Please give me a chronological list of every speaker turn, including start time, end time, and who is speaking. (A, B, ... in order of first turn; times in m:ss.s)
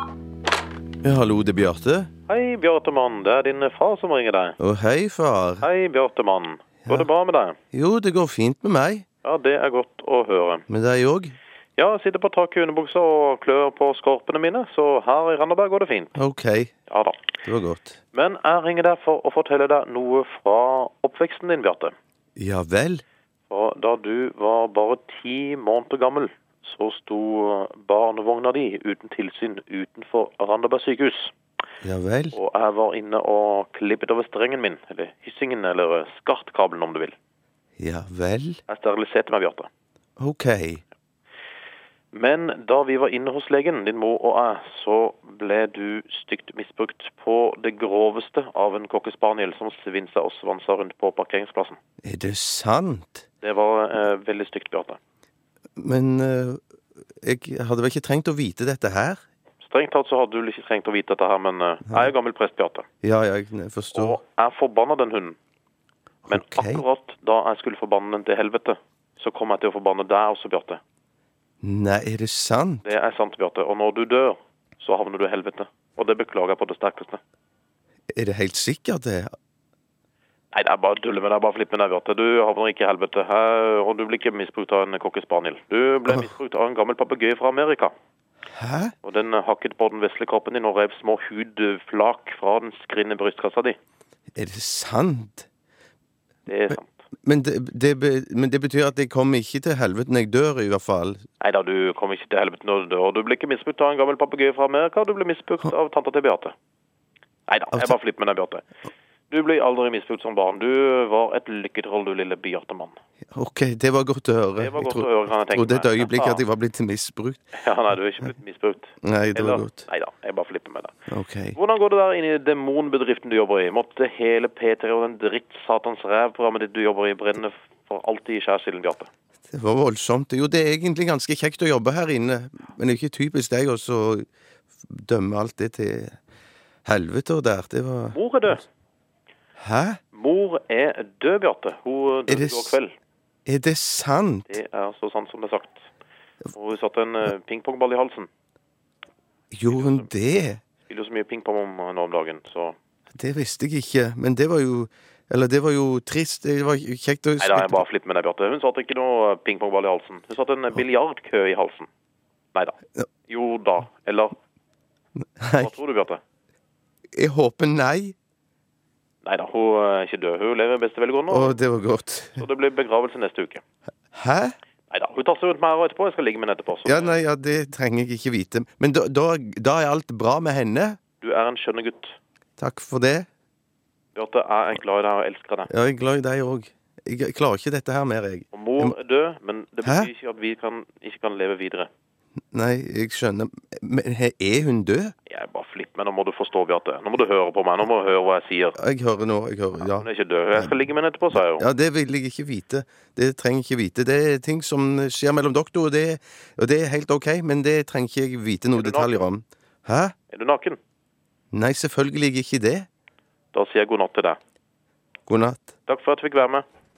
0:01.0-0:02.1 A
0:02.3-0:04.6 B
0:04.6-0:05.7 A
0:05.6-0:07.6 B
0:07.7-0:09.0 A
0:09.2-0:10.6 B
0:10.7-0:11.4 A
0:11.8-0:16.1 B
0:16.1-0:16.7 A
0:16.9-0:17.3 B
0:17.4-0:18.0 A
0:18.1-0:21.9 B
0:22.4-0:23.0 A
0:23.5-0:31.3 B
0:31.8-0:32.4 A
0:32.3-0:37.2 B
0:37.8-0:38.6 A
0:38.7-0:39.7 B
0:40.2-0:40.8 A
0:42.1-0:51.8 B
0:52.0-0:53.2 A
0:53.4-0:55.0 B
0:55.8-0:56.6 A
0:57.2-0:59.2 A
0:59.6-1:02.8 B
1:03.0-1:04.2 A
1:03.9-1:05.4 B
1:06.2-1:06.8 A
1:06.3-1:10.8 B
1:11.6-1:12.9 A
1:12.8-1:17.2 B
1:18.1-1:19.3 A
1:20.5-1:27.9 B
1:28.5-1:28.9 A
1:29.0-1:33.8 B
1:34.3-1:35.5 A
1:36.5-1:37.0 B
1:37.2-1:41.2 A
1:41.4-1:46.5 B
1:47.5-1:48.7 B
1:49.3-1:52.9 B
1:53.3-1:57.4 A
1:54.6-1:56.4 B
1:57.5-2:00.9 B
1:59.0-1:59.9 A
2:01.1-2:01.6 A
2:01.5-2:09.1 B
2:09.5-2:14.2 A
2:14.9-2:16.2 A
2:16.8-2:18.2 A
2:18.1-2:18.6 B
2:19.6-2:20.0 A
2:20.1-2:22.9 B
2:22.3-2:22.8 A
2:23.5-2:24.6 A
2:24.5-2:25.8 B
2:26.5-2:28.3 B
2:29.5-2:30.6 A
2:29.7-2:30.1 B
2:30.9-2:32.8 B
2:33.1-2:37.8 A
2:37.4-2:41.9 B
2:42.5-2:44.3 B
2:45.2-2:45.7 A
2:45.6-2:46.2 B
2:47.2-2:48.1 A
2:49.2-2:51.6 B
2:51.3-2:52.4 A
2:52.4-2:53.6 B
2:54.1-2:54.5 A
2:54.9-2:57.2 B
2:56.8-3:01.0 A
3:01.2-3:02.2 B
3:02.6-3:03.3 A
3:04.1-3:05.7 B
3:05.7-3:09.0 A
3:08.5-3:11.9 B
3:09.8-3:10.1 A
3:12.5-3:15.1 A
3:15.3-3:18.8 B
3:18.8-3:20.8 A
3:19.8-3:21.6 B
3:21.3-3:30.1 A
3:28.7-3:29.3 B
3:30.3-3:30.8 B
3:31.5-3:32.9 A
3:33.5-3:34.4 B
3:35.3-3:35.7 A
3:35.8-3:36.6 B